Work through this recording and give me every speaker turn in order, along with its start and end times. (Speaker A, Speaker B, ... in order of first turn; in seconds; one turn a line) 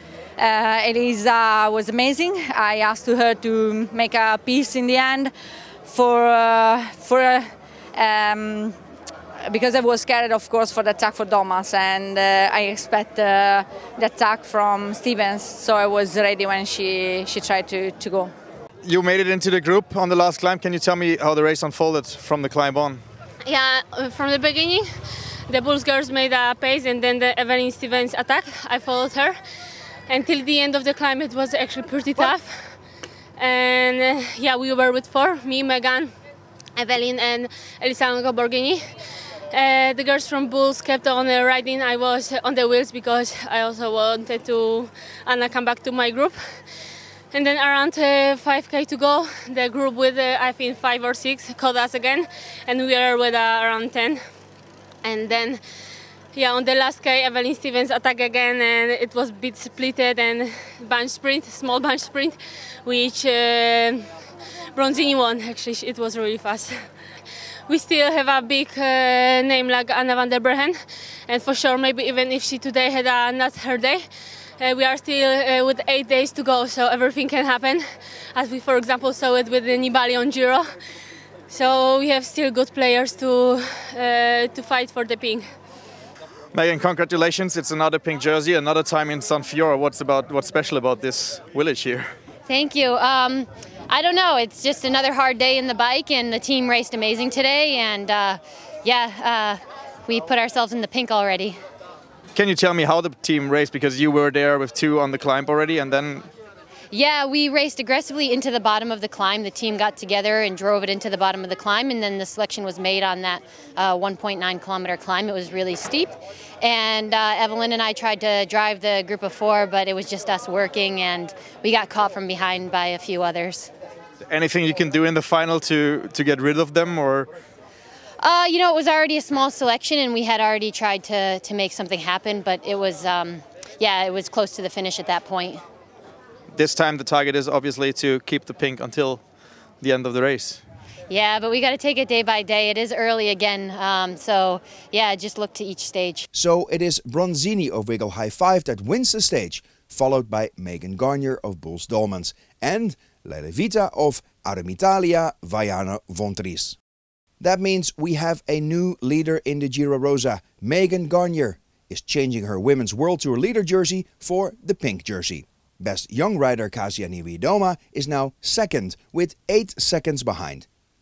Speaker A: 0.4-5.3
Speaker A: 5.8-8.8
Speaker A: 9.4-18.3
Speaker B: 18.8-23.0
Speaker C: 23.5-24.9
Speaker C: 25.5-29.4
Speaker C: 30.1-32.7
Speaker C: 33.4-36.1
Speaker C: 36.8-38.8
Speaker C: 39.5-46.6
Speaker C: 47.3-54.2
Speaker C: 55.0-55.6
Speaker C: 56.4-64.1
Speaker C: 64.8-66.8
Speaker C: 67.7-74.0
Speaker C: 74.6-77.8
Speaker C: 78.3-80.7
Speaker C: 81.5-85.4
Speaker B: 86.5-92.1
Speaker D: 92.5-101.6
Speaker B: 102.3-106.3
Speaker D: 106.9-123.7
Speaker B: 124.3-127.3
Speaker D: 128.2-135.6
Speaker B: 136.6-139.2
Speaker B: 139.8-140.6
Speaker D: 141.1-146.3
Speaker E: 146.3-156.8
Speaker E: 157.4-170.7